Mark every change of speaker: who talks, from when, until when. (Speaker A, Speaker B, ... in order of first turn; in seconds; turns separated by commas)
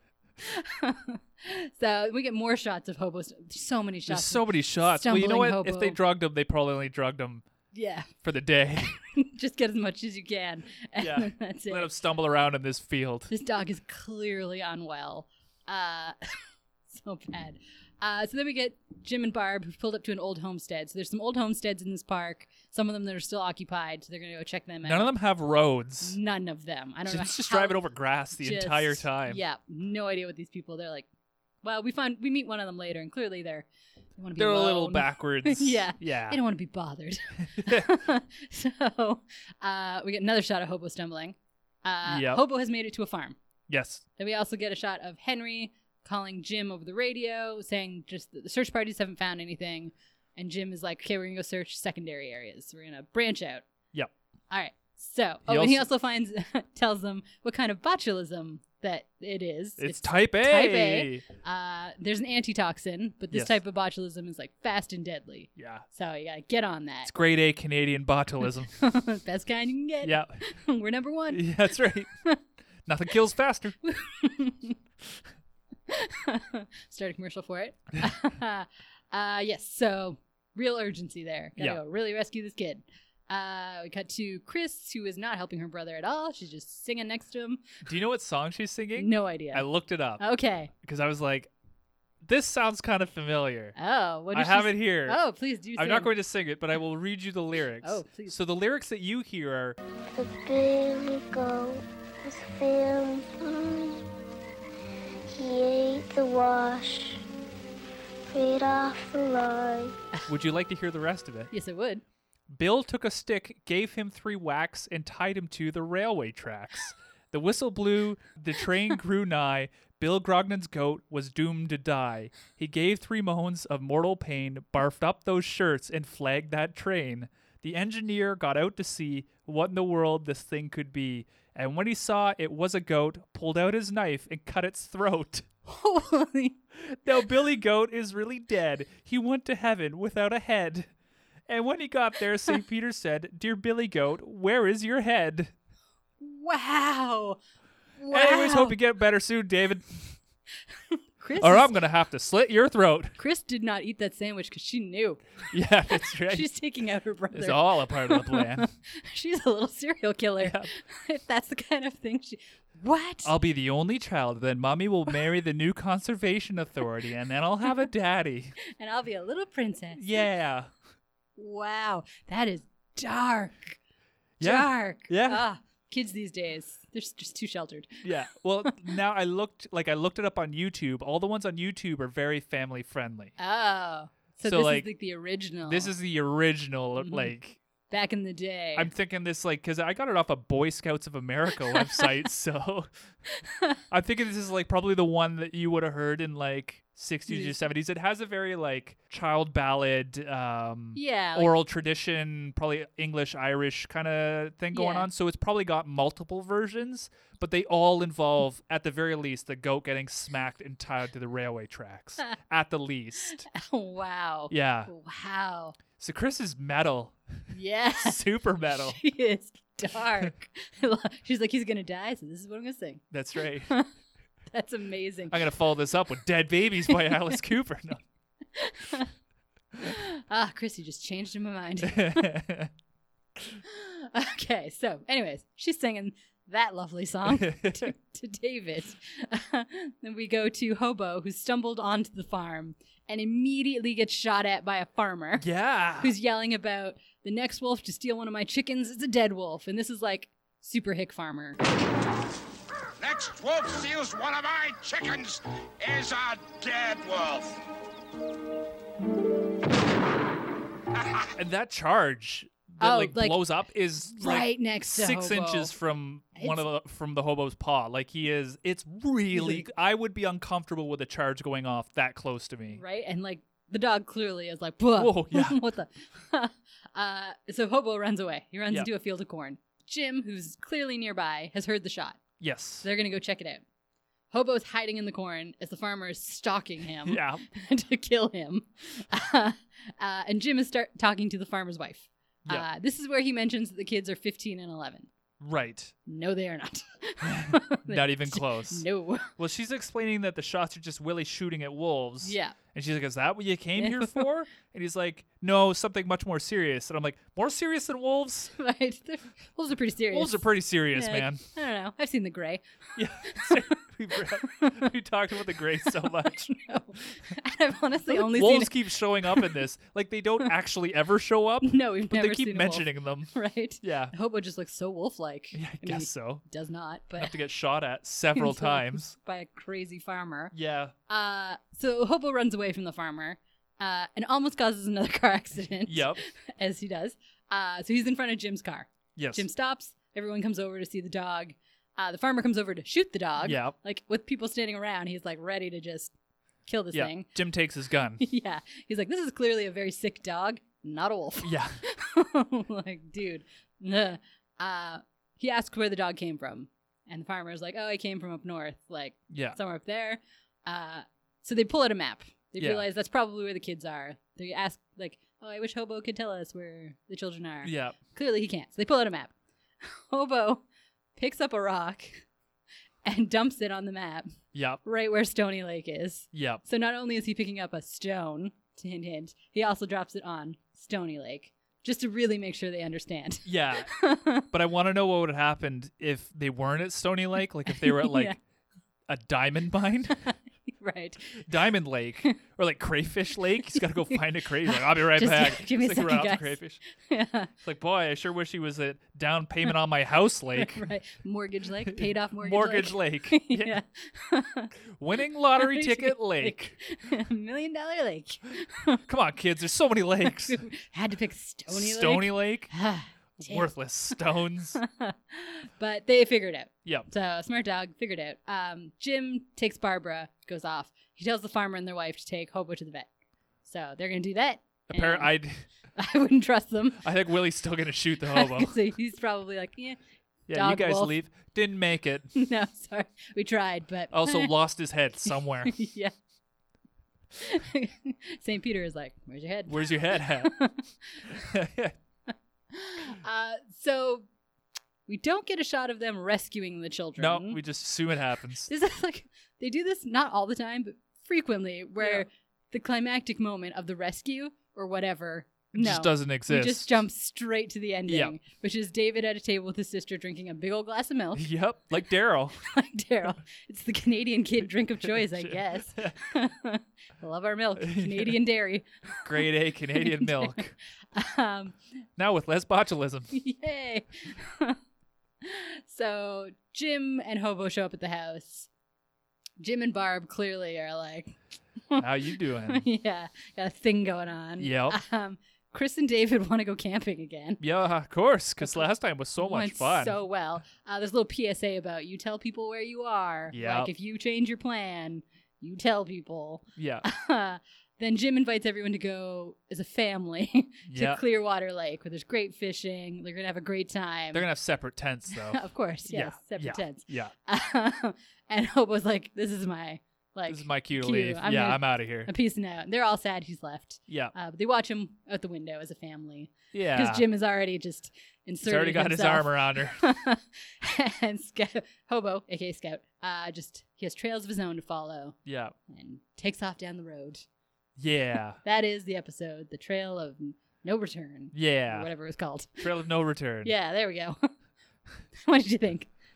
Speaker A: 0.4-6.0, Speaker B: 4.1-7.4, Speaker A: 7.7-8.1, Speaker B: 8.2-9.0, Speaker A: 9.1-11.9, Speaker B: 11.0-13.3, Speaker A: 13.3-25.1, Speaker B: 24.8-26.2, Speaker A: 26.0-27.8, Speaker B: 27.1-29.4, Speaker A: 28.4-31.1, Speaker A: 31.6-33.7, Speaker A: 34.2-43.4, Speaker B: 34.4-36.4, Speaker B: 37.4-37.9, Speaker B: 42.1-42.4, Speaker B: 43.7-44.0, Speaker A: 44.2-53.6, Speaker A: 54.5-67.1, Speaker B: 55.5-55.9, Speaker B: 59.8-61.2, Speaker B: 63.3-63.6, Speaker B: 65.6-65.9, Speaker B: 67.0-68.7, Speaker A: 68.7-71.5, Speaker B: 70.0-70.3, Speaker B: 71.3-72.1, Speaker B: 72.9-73.8, Speaker A: 73.8-74.8, Speaker A: 75.9-87.6, Speaker B: 87.8-91.5, Speaker A: 89.0-89.7, Speaker A: 90.2-90.7, Speaker B: 92.2-93.7, Speaker A: 93.8-96.1, Speaker B: 94.3-95.2, Speaker B: 95.8-99.8, Speaker A: 97.8-98.4, Speaker C: 100.1-104.1, Speaker C: 105.3-107.2, Speaker C: 108.3-110.0, Speaker B: 110.3-111.5, Speaker A: 111.5-112.0, Speaker B: 112.5-135.4, Speaker A: 135.7-136.6, Speaker B: 136.8-140.9, Speaker B: 141.5-145.5, Speaker A: 146.2-147.4, Speaker A: 148.0-148.8, Speaker B: 148.1-150.2, Speaker A: 150.9-151.8, Speaker B: 151.4-153.2, Speaker A: 153.2-155.2, Speaker B: 155.5-156.5, Speaker A: 156.0-163.3, Speaker B: 157.3-158.7, Speaker B: 160.4-160.7, Speaker B: 163.2-168.5, Speaker A: 168.8-170.1, Speaker B: 169.9-170.7, Speaker A: 171.4-173.8, Speaker B: 174.4-175.4, Speaker A: 174.4-178.0, Speaker B: 178.0-183.3, Speaker A: 183.4-185.9, Speaker B: 184.4-184.9, Speaker B: 185.6-187.6, Speaker A: 187.0-187.3, Speaker A: 187.9-188.9, Speaker B: 188.7-192.9, Speaker A: 191.8-192.0, Speaker B: 193.9-213.5, Speaker A: 197.3-197.6, Speaker A: 200.9-201.6, Speaker A: 204.7-205.1, Speaker A: 213.5-215.8, Speaker B: 214.5-214.9, Speaker B: 216.0-217.2, Speaker A: 217.5-218.2, Speaker B: 218.0-219.0, Speaker A: 218.8-223.9, Speaker B: 223.1-223.7, Speaker A: 224.5-225.4, Speaker B: 225.3-228.0, Speaker A: 226.9-227.3, Speaker A: 228.5-229.1, Speaker A: 229.8-232.3, Speaker B: 231.8-232.7, Speaker A: 233.6-245.5, Speaker B: 237.3-237.9, Speaker B: 245.4-246.1, Speaker A: 246.0-251.6, Speaker D: 253.0-257.6, Speaker B: 261.4-272.8, Speaker A: 262.8-263.4, Speaker A: 264.2-265.7, Speaker A: 266.4-266.6, Speaker A: 269.3-269.7, Speaker A: 272.7-282.2, Speaker B: 275.0-275.6, Speaker B: 282.4-282.9, Speaker A: 282.8-283.6, Speaker A: 284.3-295.1, Speaker B: 287.0-287.4, Speaker B: 295.4-295.9, Speaker A: 296.1-299.3, Speaker B: 297.2-298.9, Speaker B: 299.4-308.5, Speaker A: 302.2-302.6, Speaker A: 303.8-304.2, Speaker A: 308.6-312.6, Speaker B: 310.1-311.4, Speaker B: 313.0-316.6, Speaker A: 313.2-314.9, Speaker A: 315.8-319.6, Speaker B: 318.1-324.1, Speaker A: 321.6-327.3, Speaker B: 325.5-326.4, Speaker B: 327.2-329.1, Speaker A: 328.3-330.5, Speaker B: 330.5-330.9, Speaker A: 331.1-346.1, Speaker B: 335.9-336.2, Speaker B: 339.1-339.4, Speaker B: 343.4-343.8, Speaker A: 346.6-347.3, Speaker B: 346.9-348.2, Speaker A: 348.2-370.6, Speaker B: 351.4-351.8, Speaker B: 359.3-359.6, Speaker B: 362.6-362.8, Speaker B: 367.6-368.0, Speaker A: 371.1-372.2, Speaker A: 373.0-384.4, Speaker B: 374.5-374.8, Speaker B: 376.3-376.6, Speaker B: 383.5-383.9, Speaker B: 384.5-388.4, Speaker A: 387.6-388.4, Speaker B: 389.1-390.2, Speaker A: 390.1-391.5, Speaker B: 391.4-396.8, Speaker A: 393.7-397.5, Speaker B: 397.6-400.9, Speaker A: 400.5-404.7, Speaker B: 401.9-403.8, Speaker B: 405.0-406.8, Speaker A: 405.5-409.0, Speaker B: 409.1-410.6, Speaker A: 410.2-413.7, Speaker B: 411.7-412.7, Speaker B: 413.4-414.8, Speaker A: 414.8-423.1, Speaker A: 423.6-425.3, Speaker B: 424.9-425.6, Speaker A: 426.0-427.0, Speaker B: 427.0-428.8, Speaker A: 428.3-430.0, Speaker B: 430.5-432.3, Speaker A: 430.5-431.1, Speaker A: 432.4-434.5, Speaker B: 434.1-435.7, Speaker A: 435.6-436.1, Speaker A: 437.4-441.5, Speaker B: 439.7-440.5, Speaker B: 441.3-441.9, Speaker A: 442.3-444.2, Speaker A: 445.1-447.6, Speaker B: 447.2-448.7, Speaker A: 448.7-461.5, Speaker B: 452.0-452.2, Speaker B: 455.7-456.9, Speaker B: 458.1-458.4, Speaker B: 461.4-462.6, Speaker A: 462.6-469.4, Speaker B: 465.0-466.1, Speaker B: 467.8-468.4, Speaker B: 469.2-470.7, Speaker A: 470.0-471.8, Speaker B: 472.2-473.3, Speaker A: 473.3-474.8, Speaker A: 475.4-478.7, Speaker A: 479.6-481.3, Speaker A: 481.9-487.6, Speaker B: 482.0-482.9, Speaker B: 484.6-485.0, Speaker B: 487.6-490.1, Speaker A: 488.6-504.4, Speaker B: 493.5-493.9, Speaker B: 496.8-497.1, Speaker B: 500.9-501.2, Speaker B: 504.3-507.3, Speaker A: 505.3-525.4, Speaker B: 510.5-512.3, Speaker B: 514.1-514.3, Speaker B: 516.7-517.2, Speaker B: 518.6-520.0, Speaker B: 525.5-525.8, Speaker A: 525.9-527.4, Speaker B: 528.0-528.6, Speaker A: 528.6-532.9, Speaker B: 531.5-532.1, Speaker B: 532.8-533.7, Speaker A: 533.6-534.5, Speaker A: 535.4-536.1